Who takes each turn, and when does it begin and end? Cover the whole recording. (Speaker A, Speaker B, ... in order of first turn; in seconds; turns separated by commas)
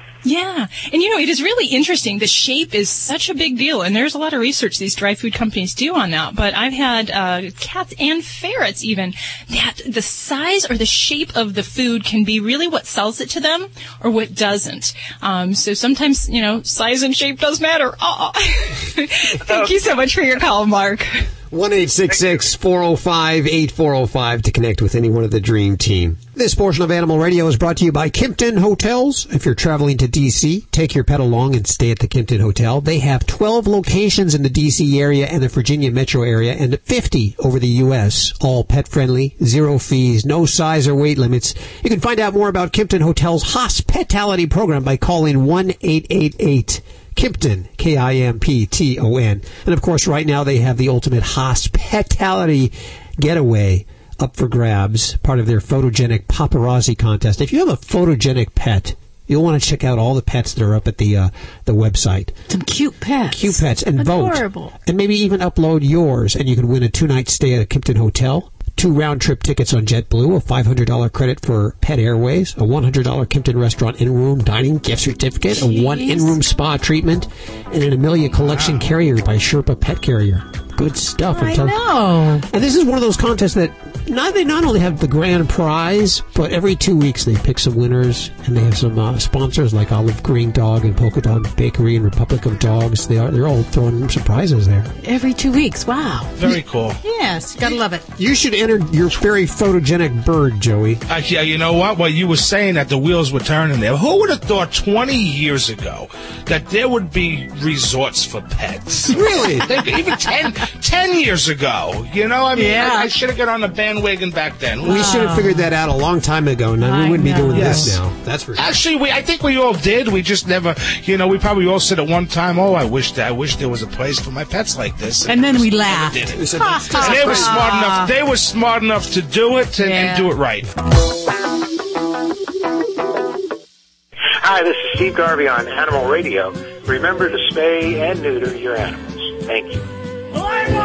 Speaker A: 0.2-21.3, Speaker B: 21.5-62.4, Speaker C: 62.5-64.7, Speaker B: 63.3-81.8, Speaker C: 75.5-76.4, Speaker D: 78.4-78.8, Speaker C: 81.3-82.4, Speaker B: 82.5-94.9, Speaker C: 95.0-98.0, Speaker D: 96.4-97.0, Speaker B: 98.2-101.0, Speaker D: 101.1-115.2, Speaker B: 109.1-109.8, Speaker C: 109.7-110.5, Speaker C: 112.5-113.1, Speaker C: 114.8-115.7, Speaker B: 114.8-118.7, Speaker C: 116.8-118.0, Speaker D: 117.5-118.0, Speaker D: 118.5-130.7, Speaker C: 125.2-128.1, Speaker B: 126.3-127.7, Speaker C: 129.8-130.3, Speaker E: 134.4-138.9